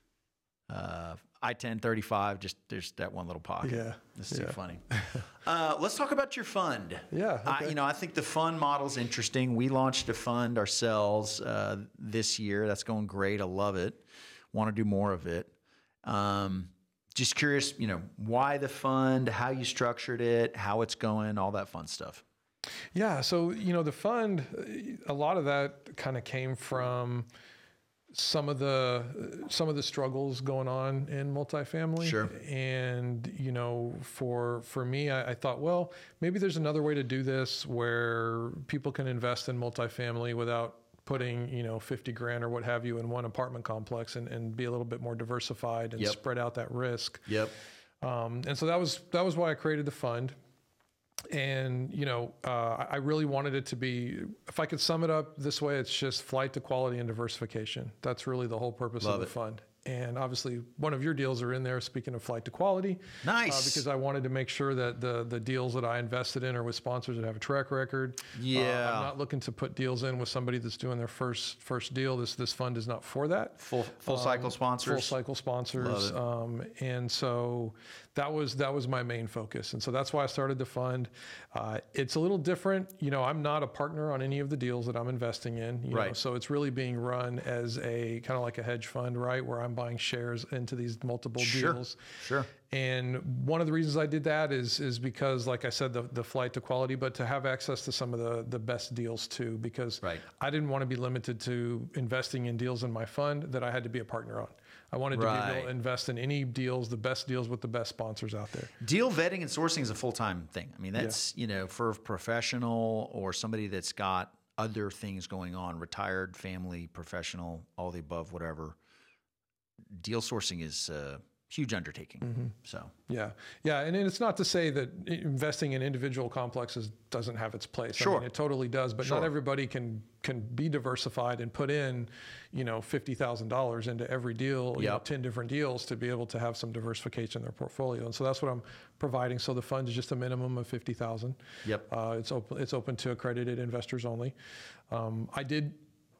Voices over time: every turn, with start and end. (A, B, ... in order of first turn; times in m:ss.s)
0:00.7-0:15.5 A
0:03.6-0:05.2 B
0:07.1-0:07.7 B
0:16.0-0:22.2 A
0:22.9-0:27.3 B
0:28.1-0:47.3 B
0:32.0-0:32.3 A
0:47.3-0:47.5 A
0:48.0-0:50.3 B
0:51.3-1:32.0 B
0:59.0-0:59.3 A
1:03.2-1:03.8 A
1:08.3-1:09.1 A
1:13.6-1:15.2 A
1:15.7-1:16.2 A
1:25.9-1:26.2 A
1:31.4-1:32.5 A
1:32.7-1:48.7 B
1:45.1-1:45.7 A
1:48.8-1:58.8 A
1:59.9-2:02.9 A
2:02.2-2:02.5 B
2:03.1-2:24.3 B
2:08.0-2:08.3 A
2:09.0-2:09.3 A
2:14.7-2:15.0 A
2:24.9-2:25.8 B